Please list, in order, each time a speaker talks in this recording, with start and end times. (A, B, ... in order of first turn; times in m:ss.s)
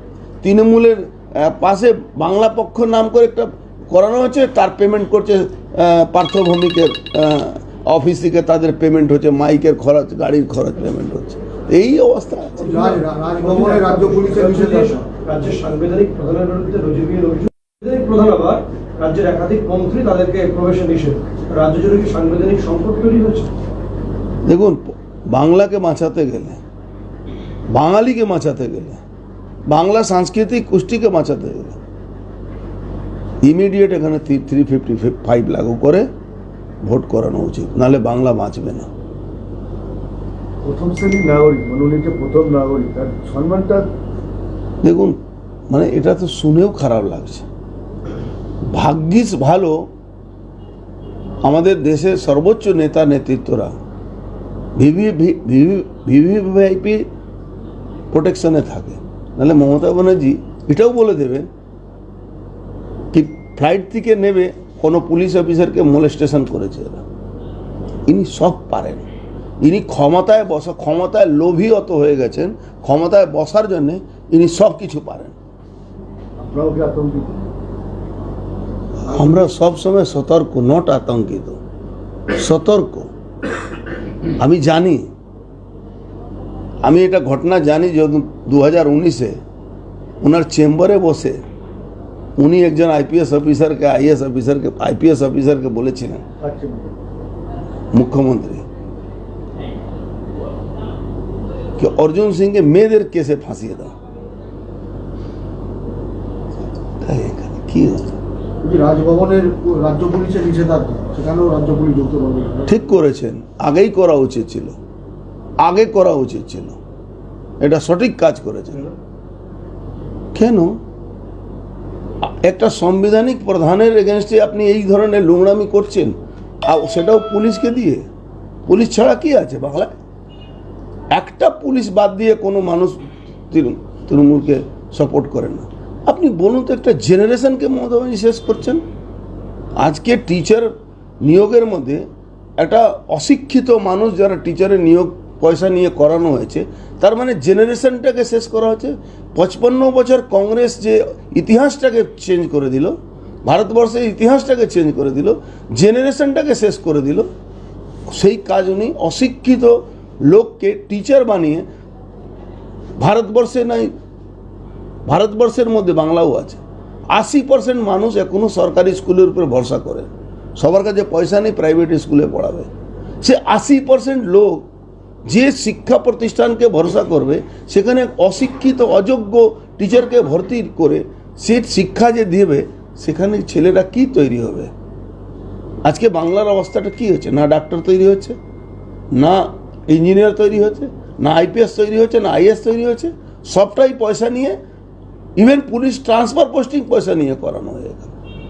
0:00.4-0:12.6 A
0:12.6-0:15.1 B
0:12.6-0:23.5 C
0:24.4-0:26.6 A
0:27.7-0:29.0 A
0:29.7-0:31.8 A
0:33.4-0:36.0 A
0:36.8-0:38.9 A
0:40.6-0:43.8 B
0:44.8-0:45.2 A
0:45.7-0:47.5 A
0:48.7-0:49.9 A
0:51.4-0:53.7 A
0:54.8-0:57.0 A
0:58.1-1:01.5 A
1:03.1-1:07.0 A
1:08.1-1:09.1 A
1:09.6-1:15.4 A
1:16.4-1:17.3 B
1:19.0-1:21.6 A
1:19.1-1:19.4 B
1:22.3-1:23.1 A
1:24.4-1:25.1 A
1:26.8-1:29.4 A
1:30.2-1:31.4 A
1:32.4-1:36.2 A
1:36.4-1:36.9 B
1:37.9-1:38.6 A
1:41.8-1:43.9 A
1:47.0-1:48.2 A
1:48.6-1:52.8 B
1:52.6-1:54.8 A
1:55.6-1:56.8 A
1:57.6-1:58.9 A
2:00.3-2:00.8 A
2:02.2-2:06.1 A
2:06.6-2:08.0 A
2:08.6-2:09.9 A
2:11.1-2:18.8 A
2:19.8-2:22.0 A
2:22.6-2:37.3 A
2:38.1-2:41.7 A
2:43.0-2:43.9 A
2:45.1-2:52.7 A
2:53.2-2:54.7 A
2:55.2-3:04.7 A
3:05.8-3:08.4 A
3:09.1-3:14.6 A
3:15.4-3:18.1 A